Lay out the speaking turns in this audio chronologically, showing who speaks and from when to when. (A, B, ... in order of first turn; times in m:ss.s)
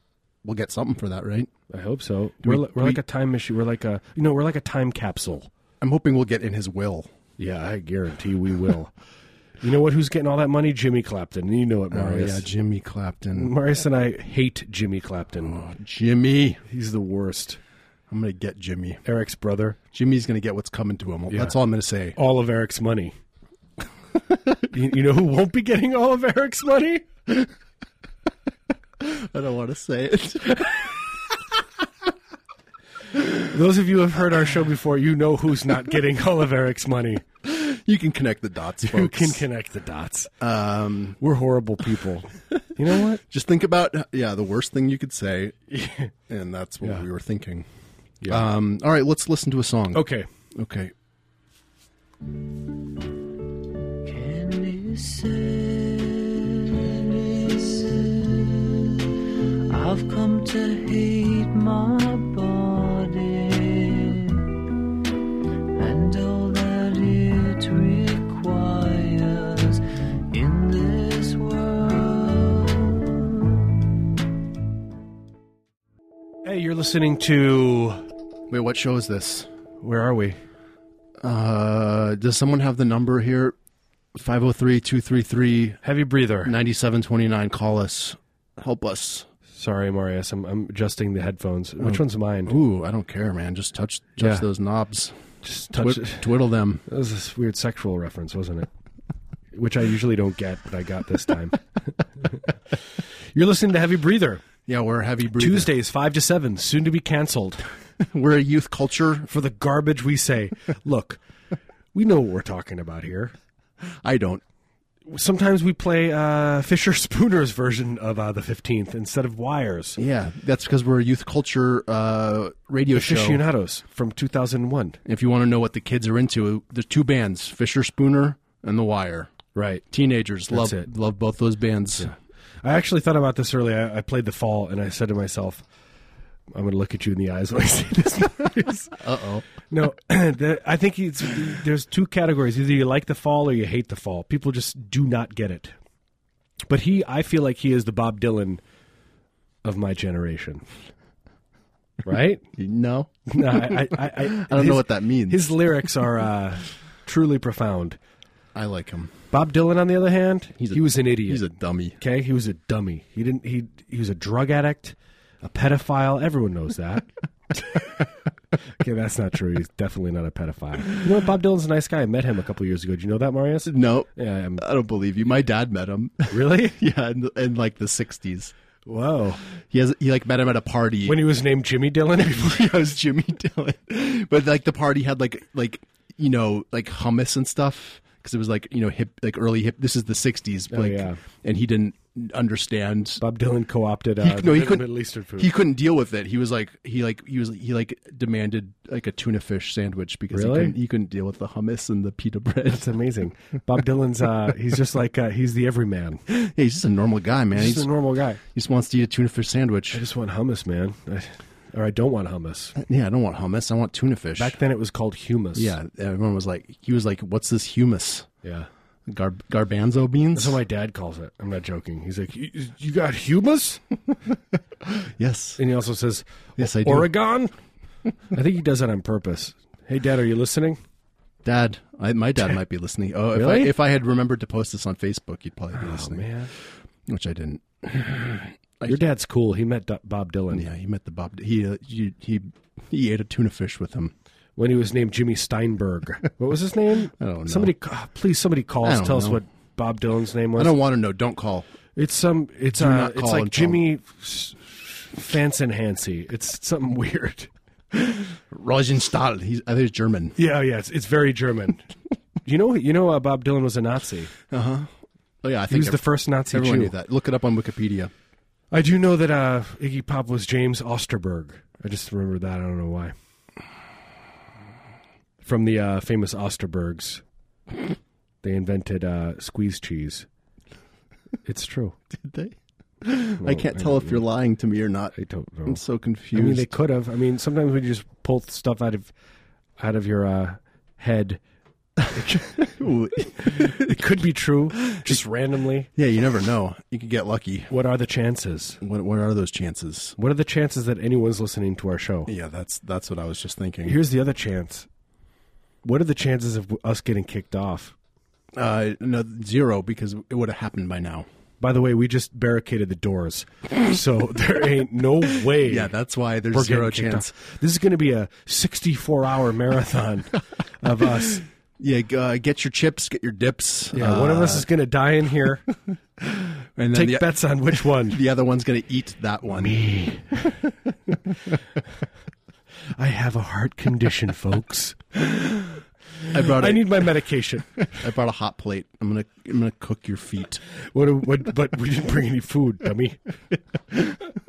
0:00.4-0:01.5 A
0:01.7-0:05.5 B
0:02.4-0:03.0 A
0:05.8-0:07.1 A
0:07.4-0:08.9 B
0:09.6-0:12.5 B
0:11.9-0:13.5 A
0:13.4-0:15.6 B
0:15.4-0:16.6 A
0:16.6-0:17.6 B
0:18.1-0:19.0 A
0:19.0-0:19.8 B
0:19.9-0:22.2 A
0:21.3-0:21.5 B
0:22.2-0:23.1 B
0:24.6-0:27.1 B
0:29.0-0:31.4 A
0:33.3-0:37.2 B
0:37.4-0:39.4 A
0:38.8-0:40.3 B
0:40.4-0:41.2 A
0:41.2-0:43.2 B
0:43.2-0:45.6 A
0:45.7-0:46.1 B
0:46.3-0:47.7 A
0:46.8-0:47.0 B
0:48.2-0:50.9 A
0:49.9-0:50.3 B
0:54.0-0:59.1 C
0:59.7-1:04.6 C
1:05.7-1:13.6 C
1:16.4-1:18.0 B
1:18.5-1:19.5 A
1:19.8-1:20.4 B
1:21.2-1:23.6 A
1:24.1-1:25.8 A
1:25.8-1:26.5 B
1:26.4-1:29.3 A
1:29.5-1:32.6 B
1:31.8-1:35.1 A
1:34.2-1:34.4 B
1:35.4-1:38.7 B
1:35.7-1:36.8 A
1:39.5-1:44.4 B
1:44.6-1:45.7 A
1:45.3-1:47.6 B
1:48.0-1:49.3 A
1:49.3-1:51.2 B
1:51.9-1:53.3 B
1:53.8-1:54.4 A
1:55.0-2:00.0 B
2:00.0-2:03.4 A
2:02.9-2:05.0 B
2:05.0-2:09.3 A
2:09.5-2:09.9 B
2:09.9-2:12.1 A
2:10.5-2:10.9 B
2:12.0-2:15.6 B
2:16.5-2:25.7 B
2:19.0-2:19.4 A
2:26.7-2:28.6 B
2:29.6-2:30.6 B
2:32.0-2:32.5 B
2:32.6-2:35.5 A
2:33.3-2:38.0 B
2:38.5-2:39.2 A
2:39.3-2:41.5 B
2:40.6-2:42.0 A
2:42.0-2:48.0 B
2:48.8-2:54.6 B
2:53.6-2:58.5 A
2:56.3-2:56.8 B
2:58.8-2:59.4 B
2:59.6-3:01.2 A
3:01.0-3:02.8 B
3:02.3-3:13.2 A
3:10.7-3:11.2 B
3:13.2-3:15.5 B
3:14.2-3:22.9 A
3:20.3-3:20.7 B
3:22.7-3:26.2 B
3:26.3-3:27.9 A
3:27.5-3:28.4 B
3:28.4-3:30.0 A
3:29.9-3:32.8 B
3:32.8-3:34.6 A
3:34.4-3:35.8 B
3:35.5-3:38.3 A
3:38.4-3:38.7 B
3:39.0-3:40.6 A
3:40.3-3:43.8 B
3:44.8-3:45.6 A
3:45.6-3:47.5 B
3:46.6-3:47.1 A
3:48.3-3:50.8 B
3:51.4-3:56.3 A
3:53.3-3:53.7 B
3:55.7-3:56.5 B
3:57.0-3:59.0 A
3:58.9-4:00.7 B
4:00.5-4:04.1 A
4:04.6-4:10.8 B
4:07.2-4:07.7 A
4:08.8-4:09.4 A
4:10.5-4:11.7 A
4:12.0-4:17.5 B
4:12.7-4:13.8 A
4:18.0-4:20.4 A
4:20.4-4:24.3 B
4:24.5-4:28.1 A
4:25.7-4:26.9 B
4:28.7-4:33.1 B
4:35.4-4:37.2 B
4:38.4-4:40.3 B
4:41.4-4:42.0 B
4:42.1-4:45.1 A
4:43.4-4:44.2 B
4:45.1-4:45.8 B
4:45.7-4:46.7 A
4:46.3-4:49.1 B
4:49.8-4:51.4 B
4:52.1-4:52.6 B
4:52.6-4:54.0 A
4:53.4-4:55.9 B
4:54.9-4:55.2 A
4:56.0-4:57.7 A
4:57.7-4:58.8 B
4:58.8-5:00.2 A
5:00.2-5:02.3 B
5:02.3-5:04.0 A
5:03.8-5:04.9 B
5:05.8-5:07.9 B
5:08.5-5:11.2 A
5:11.6-5:15.9 B
5:15.6-5:17.3 A
5:16.5-5:21.4 B
5:21.8-5:24.7 A
5:23.9-5:25.6 B
5:26.2-5:29.8 A
5:26.9-5:28.2 B
5:29.5-5:30.7 B
5:31.3-5:31.5 B
5:32.9-5:35.1 B
5:36.2-5:37.9 B
5:36.3-5:37.1 A
5:37.9-5:40.6 A
5:40.7-5:43.2 B
5:44.0-5:44.3 B